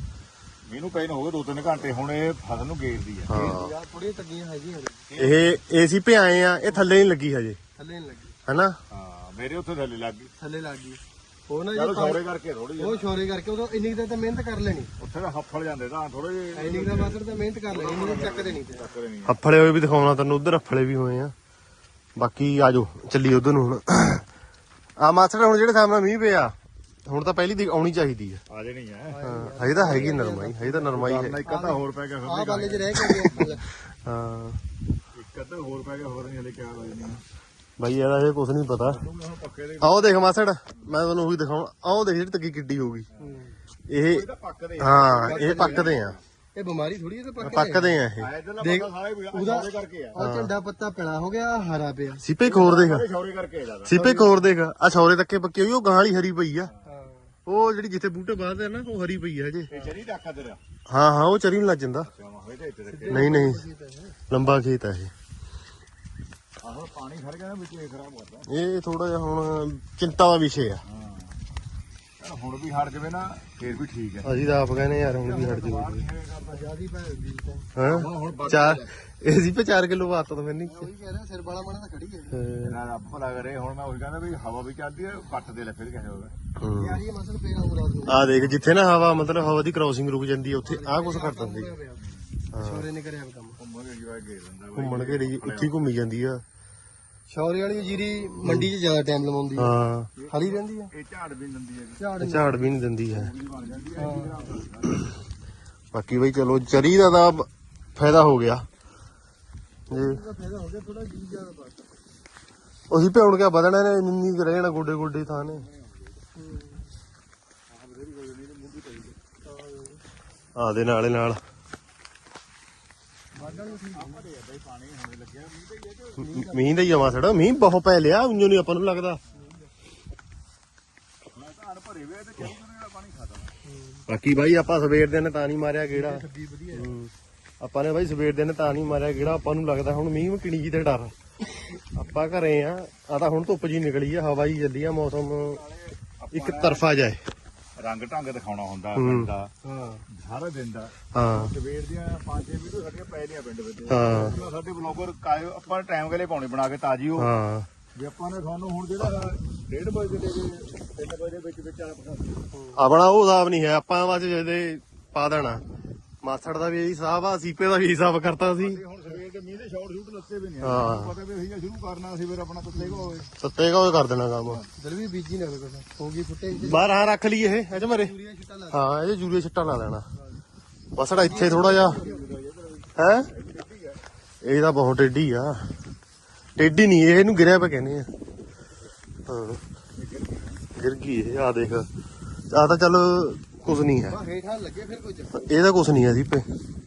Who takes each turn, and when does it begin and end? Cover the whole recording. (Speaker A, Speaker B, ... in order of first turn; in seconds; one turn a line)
Speaker A: 0.7-3.3
Speaker B: 3.3-3.7
Speaker C: 3.3-5.0
Speaker A: 5.1-5.6
Speaker B: 5.2-7.6
Speaker C: 7.8-8.3
Speaker B: 8.4-8.8
Speaker A: 8.9-10.3
Speaker C: 10.4-12.2
Speaker A: 11.7-13.1
Speaker C: 12.8-14.9
Speaker A: 15.0-19.4
Speaker C: 16.5-18.9
Speaker B: 19.2-21.3
Speaker B: 22.1-24.2
Speaker B: 25.0-26.5
Speaker B: 27.1-28.4
Speaker A: 28.5-29.2
Speaker C: 29.1-33.6
Speaker B: 29.2-31.4
Speaker A: 30.9-33.5
Speaker B: 33.1-33.4
Speaker B: 34.0-34.6
Speaker A: 35.1-37.2
Speaker B: 37.8-39.0
Speaker A: 38.8-40.2
Speaker B: 39.8-43.1
Speaker A: 43.1-43.4
Speaker C: 43.2-43.6
Speaker B: 43.9-44.2
Speaker A: 44.0-46.2
Speaker B: 44.8-46.2
Speaker C: 45.2-48.0
Speaker B: 47.4-48.3
Speaker A: 48.1-50.2
Speaker C: 48.6-52.2
Speaker B: 50.2-50.5
Speaker B: 52.2-53.1
Speaker A: 52.4-54.0
Speaker B: 53.9-56.7
Speaker C: 53.9-54.4
Speaker C: 56.8-57.3
Speaker B: 57.5-59.7
Speaker A: 59.7-60.6
Speaker B: 60.9-62.1
Speaker A: 62.0-63.5
Speaker C: 62.9-64.2
Speaker B: 63.1-63.6
Speaker B: 64.3-65.1
Speaker A: 66.6-68.5
Speaker B: 68.5-70.8
Speaker A: 70.8-71.4
Speaker A: 72.2-74.3
Speaker B: 74.2-76.0
Speaker A: 75.1-76.7
Speaker C: 76.4-78.5
Speaker B: 77.7-80.9
Speaker A: 77.8-78.9
Speaker C: 80.6-82.5
Speaker B: 82.3-82.8
Speaker A: 82.6-86.3
Speaker B: 86.6-87.0
Speaker C: 86.7-88.3
Speaker B: 88.1-91.7
Speaker C: 90.6-92.0
Speaker A: 92.0-92.4
Speaker B: 92.5-92.9
Speaker C: 92.5-93.6
Speaker A: 93.6-95.8
Speaker B: 94.8-96.4
Speaker C: 97.3-99.7
Speaker B: 98.4-98.7
Speaker B: 99.6-100.1
Speaker A: 100.2-102.0
Speaker C: 100.3-100.9
Speaker C: 102.0-102.5
Speaker B: 102.2-103.3
Speaker A: 103.1-105.1
Speaker C: 104.0-104.5
Speaker B: 105.9-108.7
Speaker B: 109.9-110.2
Speaker C: 109.9-111.8
Speaker B: 112.9-115.7
Speaker A: 115.3-116.2
Speaker C: 116.3-116.9
Speaker A: 117.7-119.2
Speaker C: 119.4-120.0
Speaker B: 120.6-121.4
Speaker C: 123.3-124.2
Speaker A: 123.3-126.3
Speaker C: 126.2-126.9
Speaker B: 126.3-129.2
Speaker C: 129.3-129.7
Speaker A: 131.3-133.5
Speaker C: 133.6-134.0
Speaker B: 134.1-141.1
Speaker C: 135.9-136.9
Speaker B: 141.9-145.6
Speaker A: 145.4-146.8
Speaker B: 146.3-147.2
Speaker A: 147.8-149.5
Speaker B: 148.9-149.3
Speaker C: 149.6-150.0
Speaker A: 150.1-157.3
Speaker B: 151.1-151.5
Speaker B: 153.9-154.3
Speaker B: 157.2-157.7
Speaker A: 157.9-162.4
Speaker C: 162.5-162.8
Speaker B: 162.8-165.6
Speaker B: 166.2-168.8
Speaker A: 168.4-173.3
Speaker B: 170.6-171.1
Speaker C: 172.8-173.2
Speaker B: 173.4-174.6
Speaker A: 174.4-174.7
Speaker C: 174.8-176.9
Speaker B: 176.6-178.1
Speaker C: 177.7-178.9
Speaker B: 178.7-180.1
Speaker B: 180.9-182.0
Speaker A: 181.2-184.0
Speaker C: 181.2-182.2
Speaker B: 183.0-183.3
Speaker B: 184.4-185.7
Speaker B: 186.6-188.1
Speaker B: 189.3-189.6
Speaker A: 189.9-190.6
Speaker B: 190.7-191.9
Speaker B: 192.5-194.2
Speaker C: 194.1-195.4
Speaker B: 195.3-196.4